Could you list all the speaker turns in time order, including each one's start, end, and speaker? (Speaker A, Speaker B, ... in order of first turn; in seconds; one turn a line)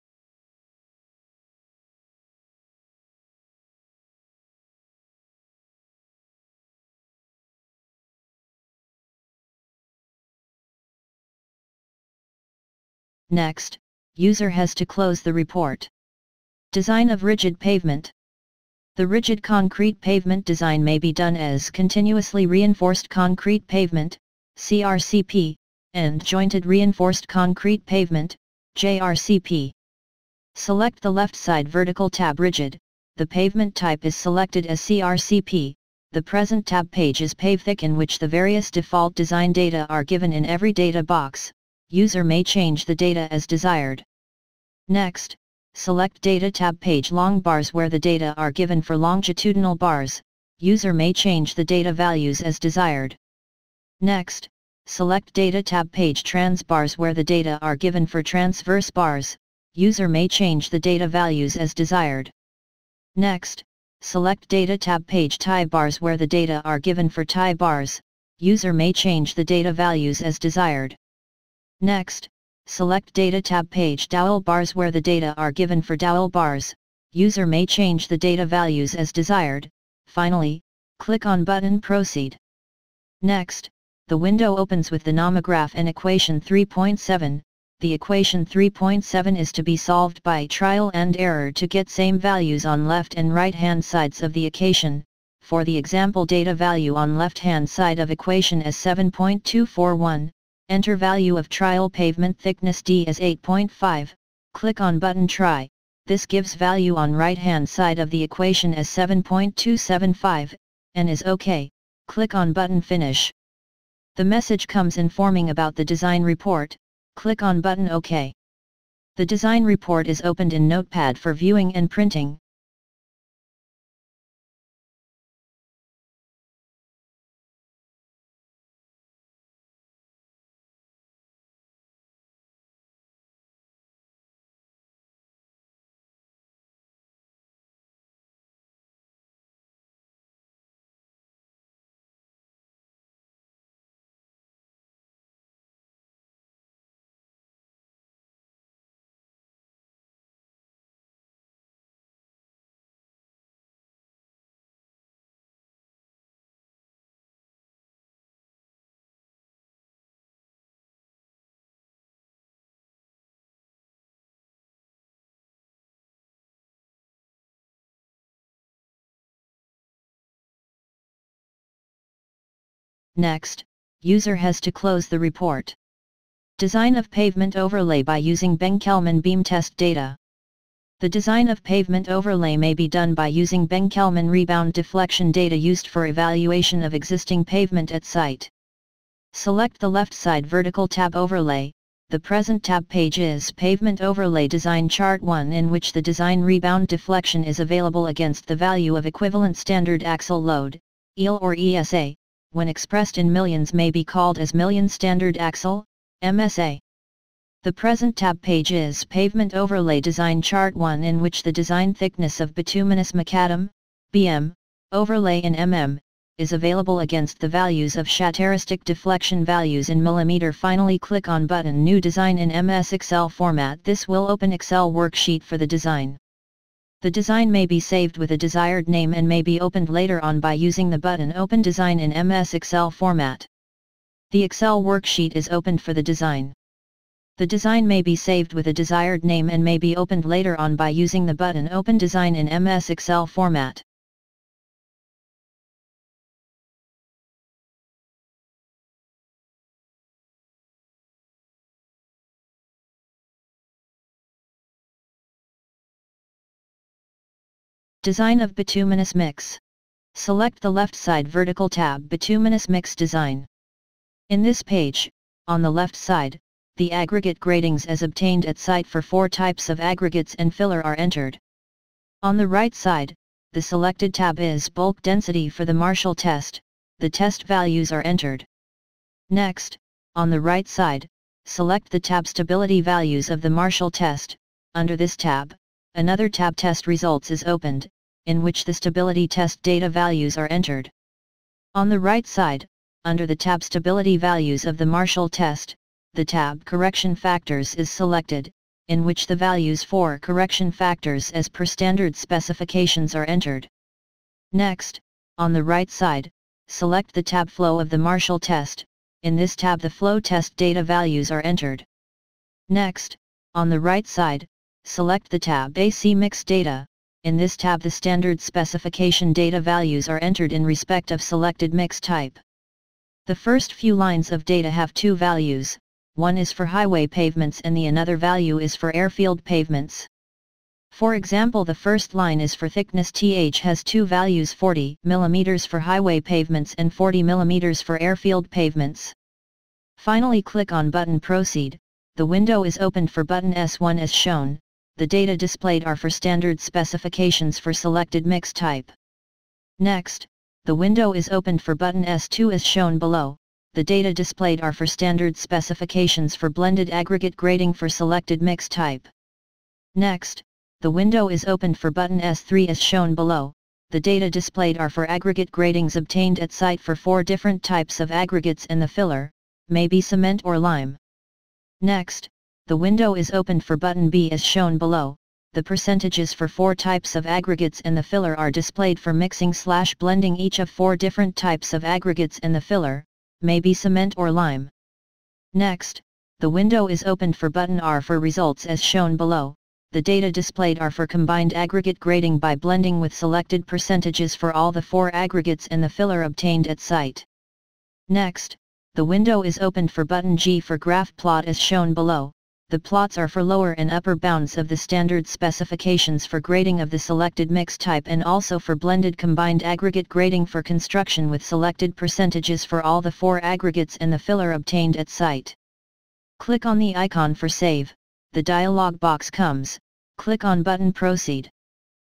Speaker A: 13.3-15.9
Speaker A: 16.7-18.1
Speaker A: 18.9-29.7
Speaker A: 30.5-44.0
Speaker A: 44.9-53.2
Speaker A: 54.0-62.3
Speaker A: 63.1-71.0
Speaker A: 71.8-82.4
Speaker A: 83.2-113.3
Speaker A: 114.1-118.3
Speaker A: 119.2-122.4
Speaker A: 173.2-175.8
Speaker A: 176.6-180.2
Speaker A: 181.0-188.5
Speaker A: 189.3-206.8
Speaker A: 207.6-226.2
Speaker A: 227.0-233.5
Speaker A: 234.3-236.5
Speaker A: 237.4-243.8
Speaker A: 258.0-259.6
Speaker A: 260.1-263.5
Speaker A: 264.3-271.4
Speaker A: 272.2-278.5
Speaker A: 279.3-290.9
Speaker A: 291.7-303.7
Speaker A: 304.5-311.9
Speaker A: 312.7-322.4
Speaker A: 323.2-330.1
Speaker A: 330.9-339.1
Speaker A: 340.0-348.9
Speaker A: 349.8-359.1
Speaker A: 359.9-371.0
Speaker A: 371.8-384.7
Speaker A: 385.5-397.2
Speaker A: 398.1-415.6
Speaker A: 416.4-421.5